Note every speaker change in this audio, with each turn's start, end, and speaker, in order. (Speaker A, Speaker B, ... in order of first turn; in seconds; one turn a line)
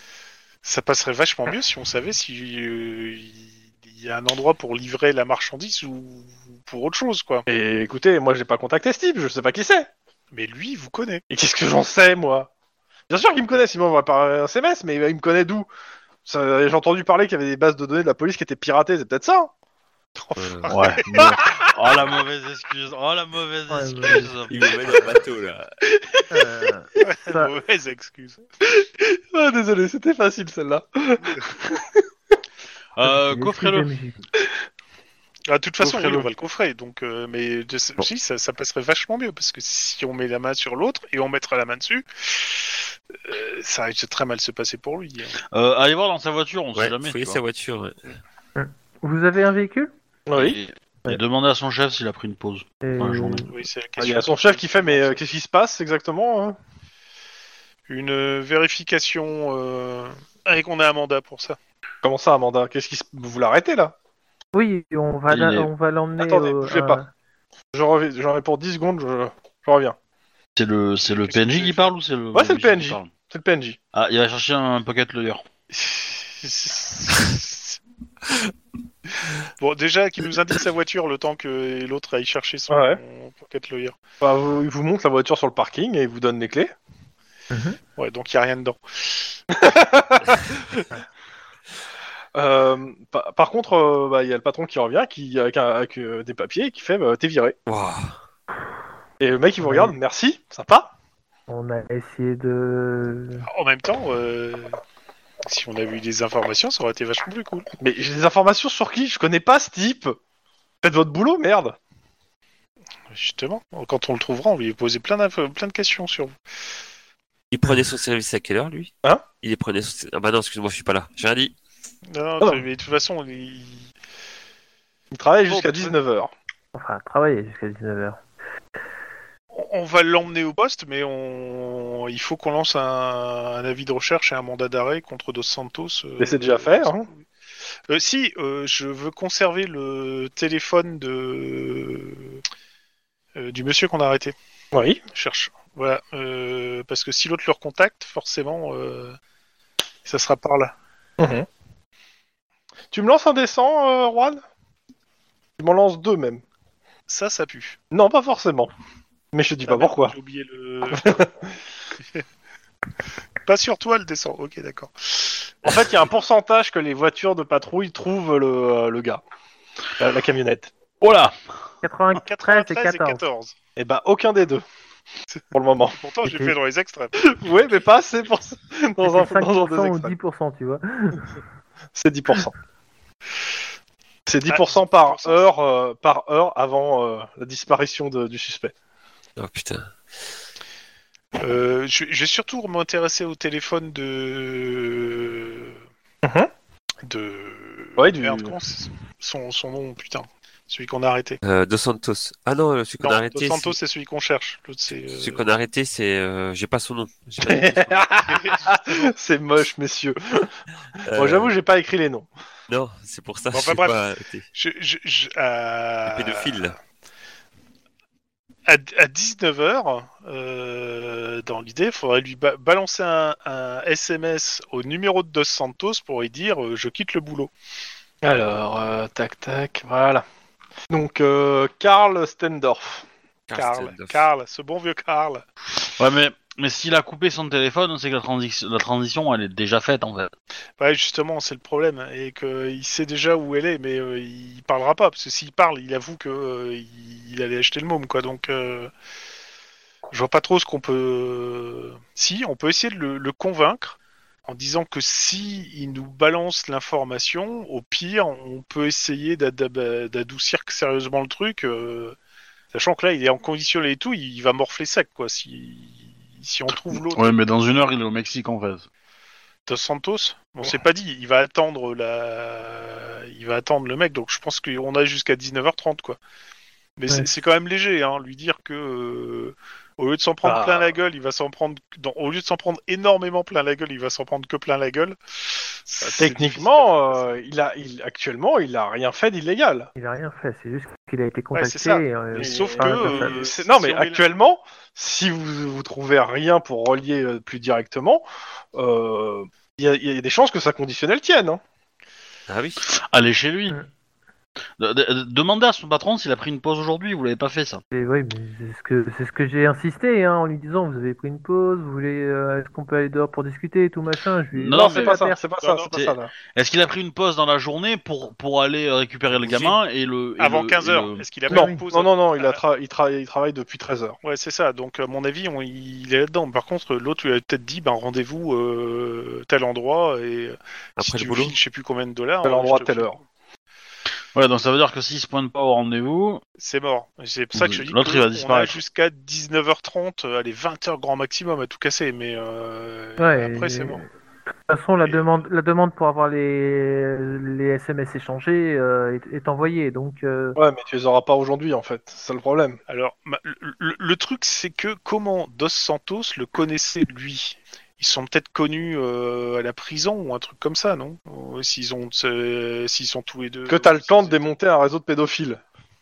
Speaker A: 0.7-7.5
Speaker B: 7.5-9.9
Speaker A: 10.3-11.2
Speaker B: 11.3-12.5
Speaker B: 13.1-15.7
Speaker B: 16.3-19.5
Speaker A: 20.2-21.6
Speaker C: 20.4-20.8
Speaker D: 20.7-25.2
Speaker E: 23.7-24.4
Speaker C: 24.5-25.7
Speaker B: 25.9-26.5
Speaker E: 26.3-27.6
Speaker A: 27.0-28.4
Speaker B: 28.7-32.0
Speaker D: 33.0-33.9
Speaker E: 33.0-34.2
Speaker A: 35.5-45.4
Speaker D: 35.8-36.3
Speaker D: 45.5-47.4
Speaker C: 46.8-48.1
Speaker E: 48.6-49.9
Speaker B: 50.3-50.6
Speaker D: 50.4-53.5
Speaker E: 52.8-53.5
Speaker A: 53.5-55.2
Speaker B: 54.0-56.6
Speaker A: 57.9-61.6
Speaker B: 62.0-63.9
Speaker E: 64.5-67.1
Speaker D: 65.3-65.7
Speaker B: 66.2-67.0
Speaker B: 67.7-70.0
Speaker D: 70.6-73.1
Speaker A: 71.1-71.9
Speaker B: 72.3-73.8
Speaker D: 73.9-75.5
Speaker A: 75.7-77.8
Speaker A: 79.5-84.0
Speaker B: 82.7-83.0
Speaker B: 84.2-86.7
Speaker E: 87.5-87.8
Speaker A: 88.0-89.4
Speaker B: 89.5-90.8
Speaker B: 92.3-97.6
Speaker C: 97.7-98.2
Speaker B: 99.2-100.9
Speaker E: 99.6-100.0
Speaker E: 101.5-103.5
Speaker A: 103.5-104.8
Speaker A: 105.4-107.7
Speaker B: 107.8-110.2
Speaker B: 110.8-111.8
Speaker A: 113.1-116.3
Speaker C: 117.5-121.5
Speaker A: 122.1-123.9
Speaker B: 125.1-126.3
Speaker A: 125.5-126.0
Speaker E: 126.7-128.2
Speaker A: 129.5-137.2
Speaker B: 136.2-137.1
Speaker A: 137.9-142.4
Speaker A: 143.3-144.3
Speaker B: 144.7-145.0
Speaker A: 145.1-149.2
Speaker A: 150.1-150.7
Speaker B: 151.2-151.5
Speaker B: 152.9-154.4
Speaker B: 155.6-156.4
Speaker A: 157.1-157.8
Speaker B: 157.9-158.7
Speaker B: 159.3-160.2
Speaker A: 159.7-161.2
Speaker B: 160.9-161.3
Speaker A: 163.4-165.6
Speaker B: 165.7-169.2
Speaker B: 170.0-170.7
Speaker D: 171.0-171.4
Speaker E: 171.8-173.2
Speaker A: 172.3-173.6
Speaker B: 173.8-174.6
Speaker B: 175.5-176.0
Speaker A: 176.0-177.7
Speaker E: 176.3-176.5
Speaker B: 177.2-180.2
Speaker E: 179.0-181.3
Speaker B: 182.0-182.5
Speaker B: 184.3-188.7
Speaker A: 184.5-185.5
Speaker C: 189.4-189.9
Speaker A: 191.4-195.8
Speaker B: 196.2-196.5
Speaker A: 197.0-201.4
Speaker B: 198.0-198.6
Speaker C: 201.4-203.8
Speaker A: 203.0-205.4
Speaker C: 205.1-208.1
Speaker B: 207.4-210.5
Speaker A: 208.2-209.1
Speaker C: 211.1-211.6
Speaker B: 211.2-212.3
Speaker C: 212.7-214.4
Speaker A: 213.5-214.0
Speaker A: 214.5-216.7
Speaker C: 216.1-216.8
Speaker A: 218.7-227.5
Speaker B: 228.2-230.2
Speaker B: 230.9-233.1
Speaker C: 233.5-234.3
Speaker A: 233.5-235.4
Speaker D: 236.0-240.3
Speaker A: 240.8-248.9
Speaker A: 250.1-262.2
Speaker A: 262.7-267.3
Speaker D: 267.1-268.9
Speaker A: 269.7-276.2
Speaker A: 277.0-287.3
Speaker B: 280.4-280.9
Speaker B: 286.0-289.9
Speaker E: 290.0-293.4
Speaker A: 291.5-294.3
Speaker B: 292.4-298.2
Speaker B: 298.8-301.6
Speaker C: 302.5-302.8
Speaker D: 302.9-303.8
Speaker D: 304.8-307.8
Speaker E: 307.9-315.4
Speaker D: 314.5-315.2
Speaker B: 314.7-316.3
Speaker A: 315.6-315.9
Speaker D: 315.9-321.2
Speaker A: 319.4-319.8
Speaker A: 320.4-322.6
Speaker B: 321.5-324.2
Speaker E: 321.5-321.8
Speaker A: 324.2-333.2
Speaker C: 331.0-331.6
Speaker B: 332.4-333.2
Speaker D: 334.4-336.4
Speaker A: 336.6-344.0
Speaker D: 337.5-338.8
Speaker E: 343.2-344.1
Speaker E: 344.7-350.6
Speaker B: 350.6-352.8
Speaker A: 352.9-364.5
Speaker B: 363.7-365.6